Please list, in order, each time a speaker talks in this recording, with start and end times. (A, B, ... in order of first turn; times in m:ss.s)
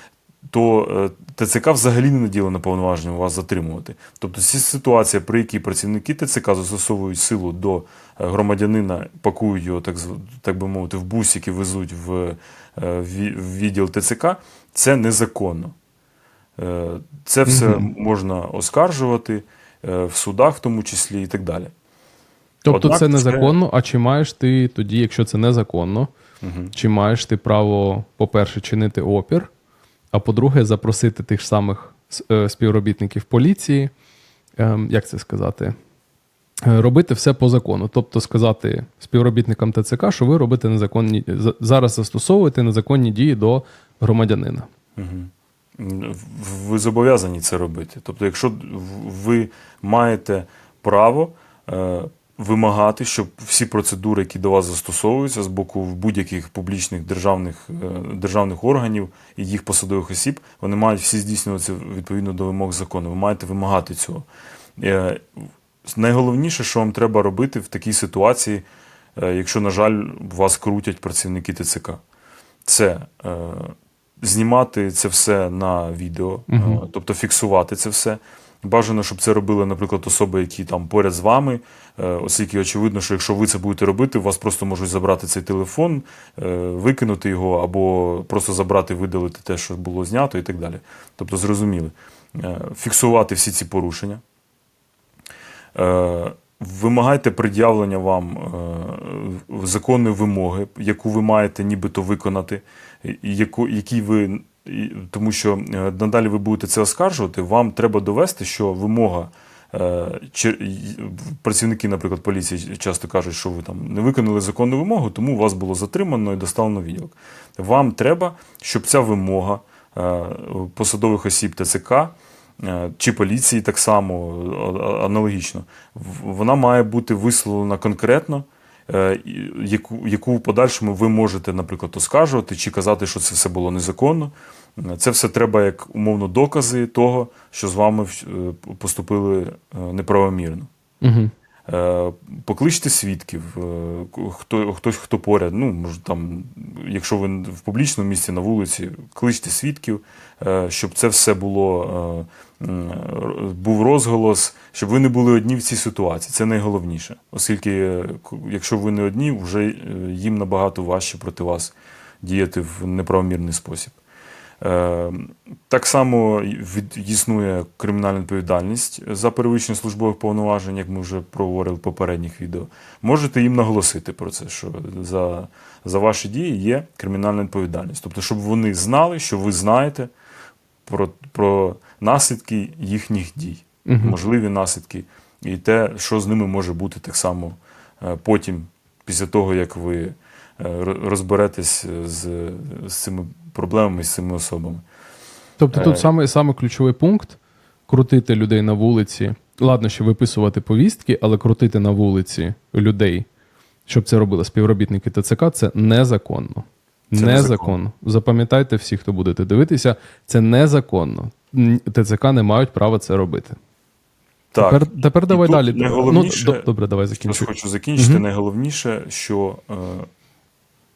0:00.5-0:15.8 A
0:16.6-0:21.7 A
0:17.5-0:17.9 B
0:22.6-0:26.1 B
0:22.7-0:23.6 A
0:26.4-0:26.7 A
0:26.7-0:29.5 B
0:30.1-0:33.9 B
0:34.6-0:35.8 B
0:36.6-0:44.7 B
0:45.0-1:04.3 A
1:04.8-1:05.3 A
1:05.8-1:08.6 A
1:09.2-1:12.0 A
1:12.6-1:34.2 A
1:16.5-1:16.8 B
1:35.8-2:20.7 A
2:21.0-2:21.3 B
2:21.7-2:44.0 A
2:44.6-3:00.1 A
3:00.9-3:14.8 A
3:03.9-3:04.2 B
3:15.6-3:23.3 B
3:15.7-3:16.1 A
3:23.9-3:33.6 B
3:27.1-3:27.8 A
3:34.5-3:40.1 A
3:34.6-3:38.2 B